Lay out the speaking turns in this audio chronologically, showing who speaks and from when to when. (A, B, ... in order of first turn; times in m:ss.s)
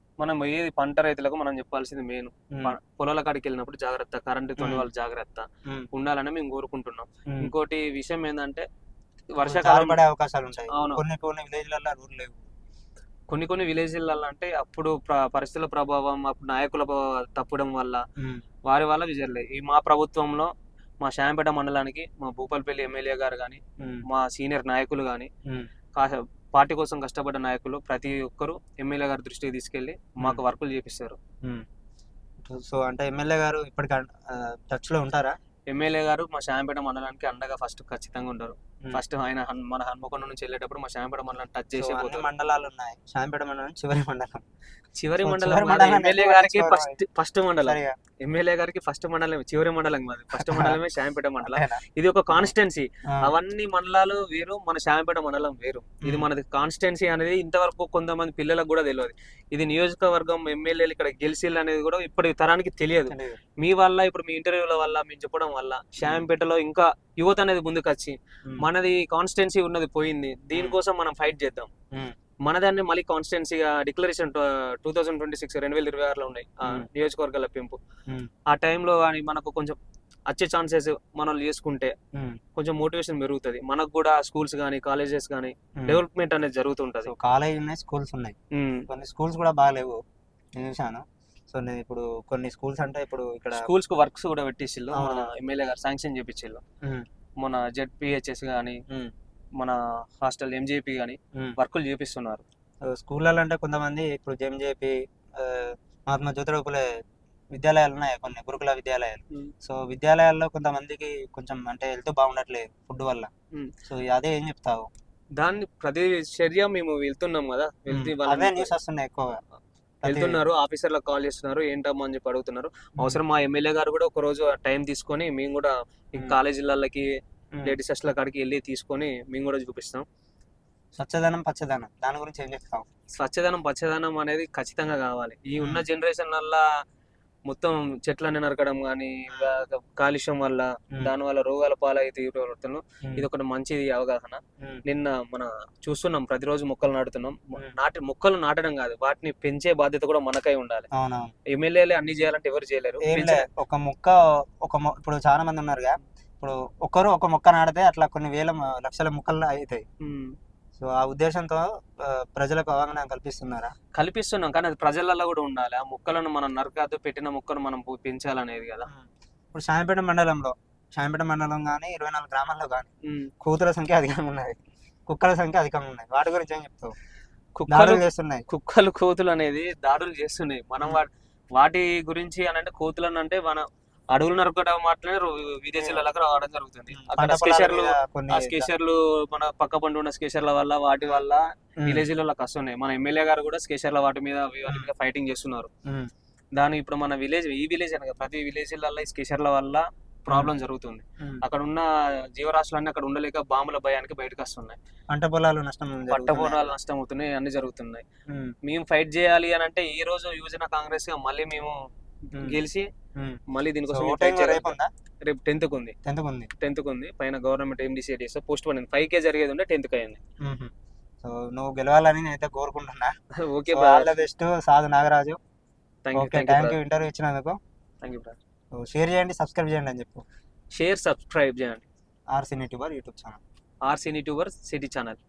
0:00.2-0:08.7 A
0:04.6-0:04.9 B
0:09.4-0:10.0 A
0:09.4-0:12.4 B
0:10.7-0:11.0 A
0:13.3-0:18.0 A
0:18.7-0:25.3 A
0:23.8-0:24.0 B
0:26.0-0:31.2 A
0:32.5-0:35.4 B
0:35.7-0:42.3 A
0:41.8-0:44.4 B
0:45.0-1:11.7 A
0:45.2-0:47.0 B
0:47.6-0:48.0 B
0:50.4-0:50.8 B
0:51.4-0:51.8 B
1:03.1-1:03.4 B
1:12.4-1:17.8 A
1:18.5-1:19.8 A
1:20.3-1:21.9 A
1:22.6-1:27.1 A
1:27.0-1:28.4 B
1:28.5-1:28.9 A
1:28.9-1:30.0 B
1:30.6-1:33.6 B
1:33.5-1:36.6 A
1:34.9-1:35.3 B
1:37.4-1:38.8 A
1:39.6-1:42.4 A
1:42.9-1:46.9 B
1:47.5-1:53.3 B
1:53.9-1:54.9 B
1:55.4-1:58.7 A
1:57.9-1:59.4 B
2:00.0-2:00.4 B
2:00.0-2:07.1 A
2:07.6-2:10.1 A
2:11.0-2:12.9 B
2:13.2-2:16.6 A
2:15.6-2:15.8 B
2:17.5-2:30.9 A
2:30.9-2:31.3 B
2:31.5-2:33.5 A
2:33.0-2:39.8 B
2:40.0-2:40.3 A
2:40.8-2:43.7 B
2:44.0-2:48.9 A
2:48.9-2:52.9 B
2:53.4-2:56.9 B
2:57.6-3:15.7 A
2:57.7-2:58.4 B
3:05.8-3:06.0 B
3:06.9-3:08.7 B
3:11.8-3:12.1 B
3:16.6-3:24.8 A
3:25.1-3:26.7 B
3:26.1-3:28.0 A
3:28.6-3:31.8 A
3:32.3-3:32.9 A
3:33.2-3:34.9 B
3:33.5-3:34.7 A
3:35.3-3:36.0 A
3:36.0-3:36.5 B
3:36.6-3:40.2 A
3:40.4-3:40.7 B
3:41.2-3:43.1 B
3:43.4-3:44.1 A
3:43.7-3:45.4 B
3:46.0-3:46.8 A
3:46.2-3:47.6 B
3:48.0-3:48.4 A
3:48.8-3:50.2 B
3:50.8-3:51.8 A
3:52.3-3:53.4 B
3:53.9-3:55.2 A